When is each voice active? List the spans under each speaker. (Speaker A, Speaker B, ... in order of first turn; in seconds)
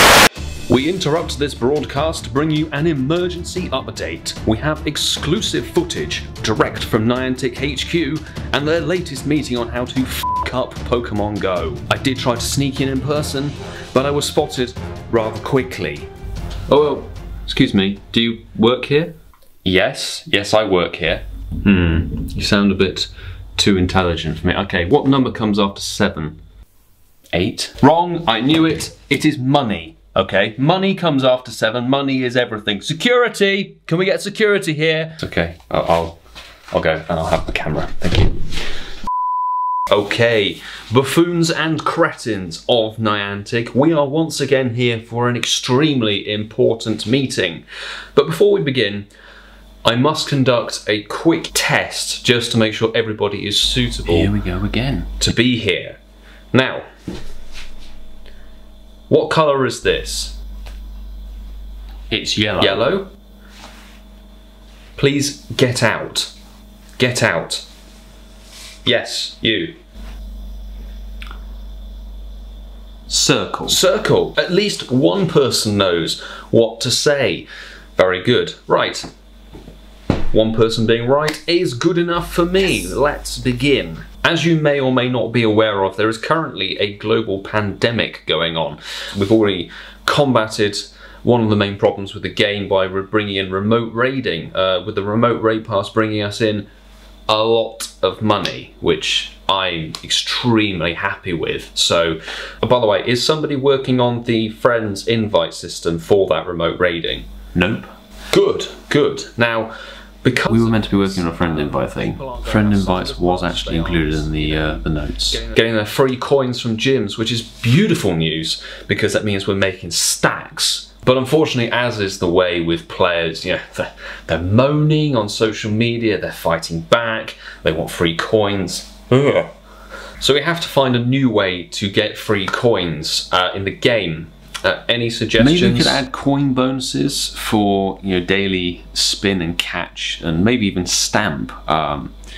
Speaker A: 0.7-16.1, 16.7-26.4, 27.4-36.2, 36.7-38.5, 39.9-47.6, 48.1-49.1, 49.9-54.3, 55.2-56.0, 56.5-56.9, 59.1-60.4, 62.6-63.1, 65.0-66.3, 67.0-67.7, 68.8-69.8, 73.7-79.1, 80.3-96.7, 97.3-109.7, 110.2-129.5, 130.2-136.0
Speaker B: 54.1-55.2, 62.1-62.8, 73.1-73.8, 110.5-115.5, 135.4-142.1